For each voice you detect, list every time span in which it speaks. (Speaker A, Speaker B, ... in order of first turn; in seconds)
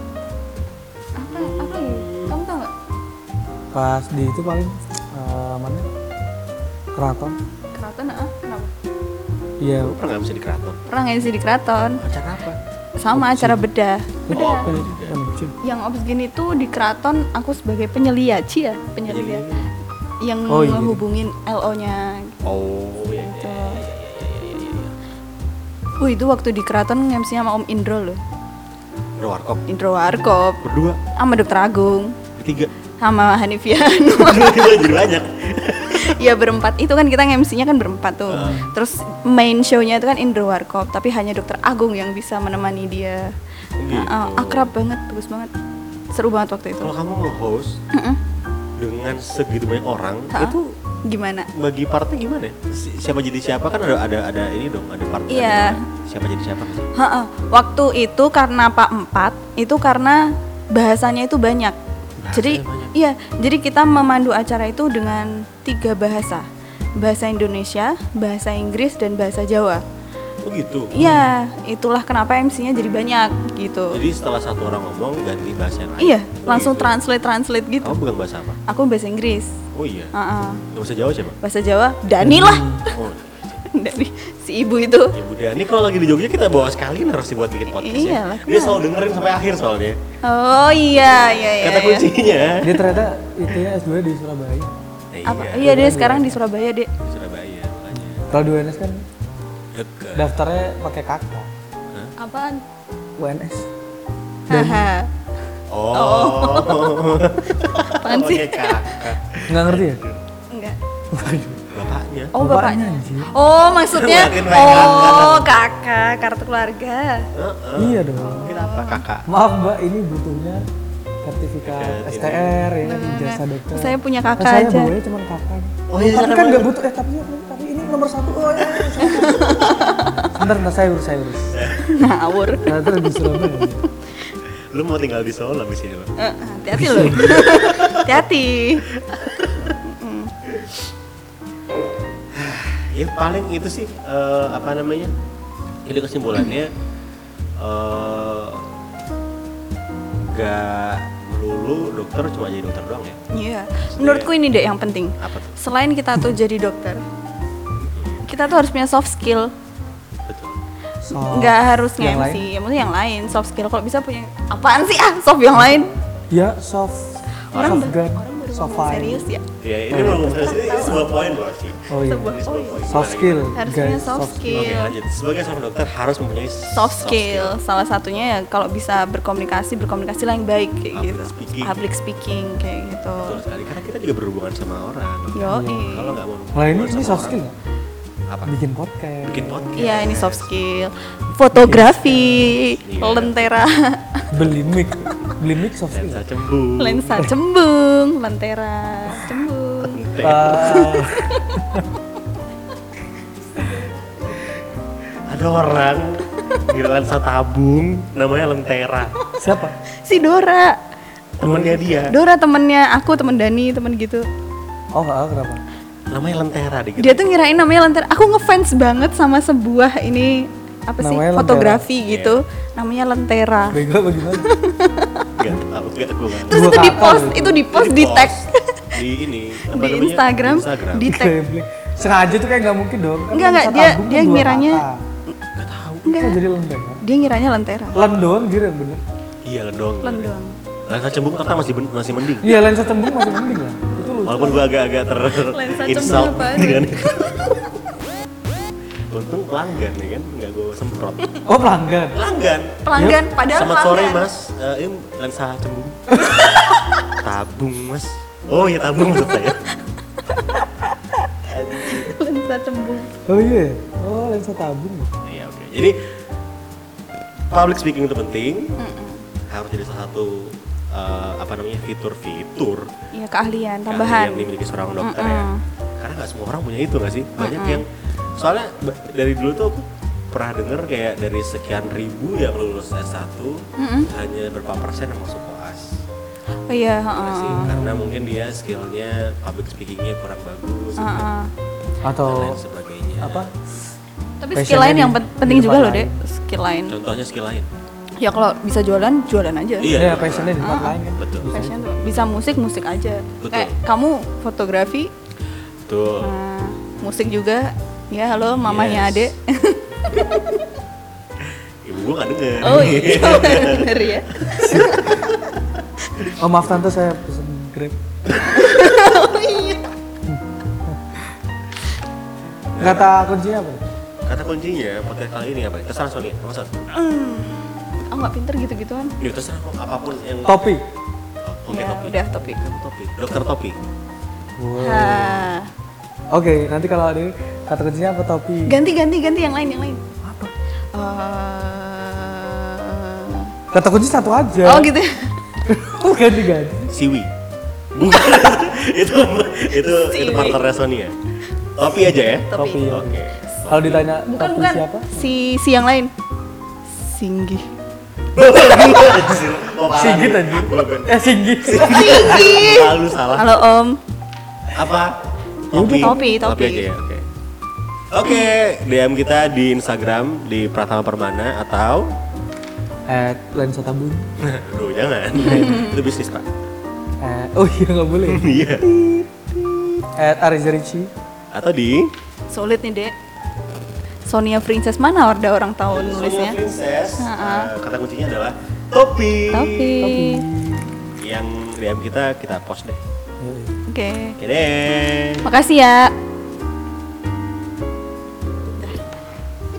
Speaker A: 1.2-2.7, 7.7-8.7, 10.9-12.0, 13.0-14.7, 15.6-19.4, 20.2-22.4, 23.1-23.8, 26.0-28.2, 29.7-30.6, 31.2-32.2, 33.0-34.9, 35.9-43.3, 43.9-45.5, 46.1-46.9, 47.9-48.2, 50.3-51.5, 55.3-55.8, 57.0-61.8, 62.3-69.8, 70.9-74.0, 76.0-78.0, 78.7-79.6, 80.1-80.6, 81.4-83.0, 83.7-85.2, 87.7-88.8, 90.2-92.0, 95.3-96.9, 102.2-102.6, 104.5-105.1, 105.9-109.0, 110.5-110.8, 112.3-117.3, 118.2-119.0, 122.8-124.9, 129.0-130.3, 131.8-133.9, 136.2-138.8, 139.8-140.3, 153.3-157.0, 158.3-159.5, 161.2-165.9, 167.5-171.1, 172.1-173.0, 173.6-174.9, 176.7-183.4, 185.3-186.2, 189.8-194.3, 196.8-201.5, 210.0-210.8, 212.1-214.2, 217.0-223.8, 224.3-225.3, 226.5-228.9, 229.7-231.3, 233.3-235.4, 236.1-236.4, 237.0-238.0, 240.0-240.6, 245.5-247.7, 252.8-254.2, 260.3-260.7, 261.7-263.1, 268.8-269.2, 273.1-274.5, 275.0-275.6, 277.4-277.8, 283.8-284.1, 286.7-287.8, 291.0-291.5, 294.4-297.0, 298.2-300.1, 300.6-305.1, 306.2-310.8, 312.6-315.3, 318.4-319.9, 326.9-329.2, 331.7-332.6, 334.8-335.7, 338.7-340.0, 340.9-343.5, 344.6-345.3, 350.0-350.6, 352.5-353.0, 354.3-356.1, 356.9-357.7, 361.8-364.0, 365.8-366.9, 375.5-375.9, 382.5-383.1, 384.3-386.6, 387.2-387.7, 389.5-390.4, 393.9-394.4, 395.4-396.1, 398.8-399.0
Speaker B: 1.3-2.4, 9.8-10.8, 12.0-12.6, 14.3-15.2, 19.1-19.7, 22.4-24.9, 29.2-29.6, 30.6-31.0, 32.4-32.7, 34.2-36.2, 38.3-38.7, 43.8-44.7, 46.8-47.8, 48.8-50.7, 51.5-56.9, 62.2-62.9, 70.4-70.9, 73.9-77.0, 77.8-78.6, 79.7-80.1, 80.7-81.4, 82.9-83.6, 85.1-90.0, 91.0-92.9, 95.1-95.7, 97.0-98.3, 99.7-100.3, 105.7-110.2, 111.7-112.3, 113.9-115.5, 117.3-119.3, 121.6-122.6, 125.9-126.7, 128.7-129.2, 131.5-131.9, 134.7-136.1, 137.2-138.2, 138.9-139.8, 142.3-145.1, 145.8-146.7, 147.6-148.7, 150.2-153.2, 153.9-154.3, 155.2-155.6, 157.8-158.2, 160.3-160.6, 167.5-167.9, 169.6-173.5, 174.5-177.6, 180.9-181.8, 183.2-187.4, 188.3-188.5, 189.2-190.5, 192.9-193.5, 195.9-197.2, 199.9-200.9, 205.3-209.2, 211.4-212.2, 216.1-217.3, 222.0-222.4, 225.4-226.6, 227.7-231.1, 235.6-236.1, 239.4-240.3, 240.9-242.5, 244.2-247.7, 249.1-251.4, 252.1-252.8, 253.4-259.6, 261.5-262.1, 265.2-266.0, 267.5-268.8, 269.5-272.9, 273.9-275.5, 276.0-277.9, 278.4-286.0, 287.1-291.3, 292.3-293.5, 296.9-297.7, 299.8-301.5, 303.4-303.8, 305.9-306.3, 308.5-309.3, 311.5-315.4, 322.8-323.1, 324.3-326.9, 329.2-330.8, 331.4-333.8, 346.9-347.3, 347.9-351.1, 351.8-354.1, 358.4-363.5, 364.7-367.3, 368.1-372.1, 374.4-376.5, 378.3-378.9, 379.5-380.0, 381.5-382.1, 385.9-390.0, 391.2-393.0, 394.4-395.5
Speaker C: 3.7-5.9, 6.9-7.4, 9.6-9.9, 13.1-13.6, 14.3-15.6, 20.5-21.0, 71.0-71.3, 82.2-82.8, 92.6-94.8, 95.6-96.4, 98.3-99.0, 100.2-101.5, 103.2-103.7, 104.5-104.9, 109.5-110.0, 111.1-111.7, 112.4-113.3, 117.8-118.5, 119.3-120.7, 121.2-129.7, 130.3-131.6, 132.7-133.8, 136.8-137.3, 161.0-162.5, 166.3-169.3, 169.9-170.2, 171.9-172.3, 172.8-174.8, 185.5-185.9, 186.6-187.5, 188.4-189.9, 191.5-192.6, 194.3-196.2, 200.2-201.9, 209.4-209.8, 214.9-215.6, 221.0-221.8, 223.7-224.5, 226.5-227.7, 231.0-235.0, 236.1-237.0, 237.9-239.0, 242.4-244.7, 251.5-252.2, 263.3-265.1, 287.5-288.2, 292.0-292.6, 293.2-293.5, 294.6-296.2, 299.9-301.9, 314.6-315.0, 316.4-318.0, 320.3-321.3, 322.8-323.8, 330.4-330.8, 334.6-335.5, 336.3-338.8, 340.2-340.5, 343.7-344.9, 345.7-346.9, 352.5-355.3, 359.9-362.5, 365.7-366.2, 373.1-374.3, 377.2-379.3, 380.2-381.1, 390.0-391.1, 393.4-393.8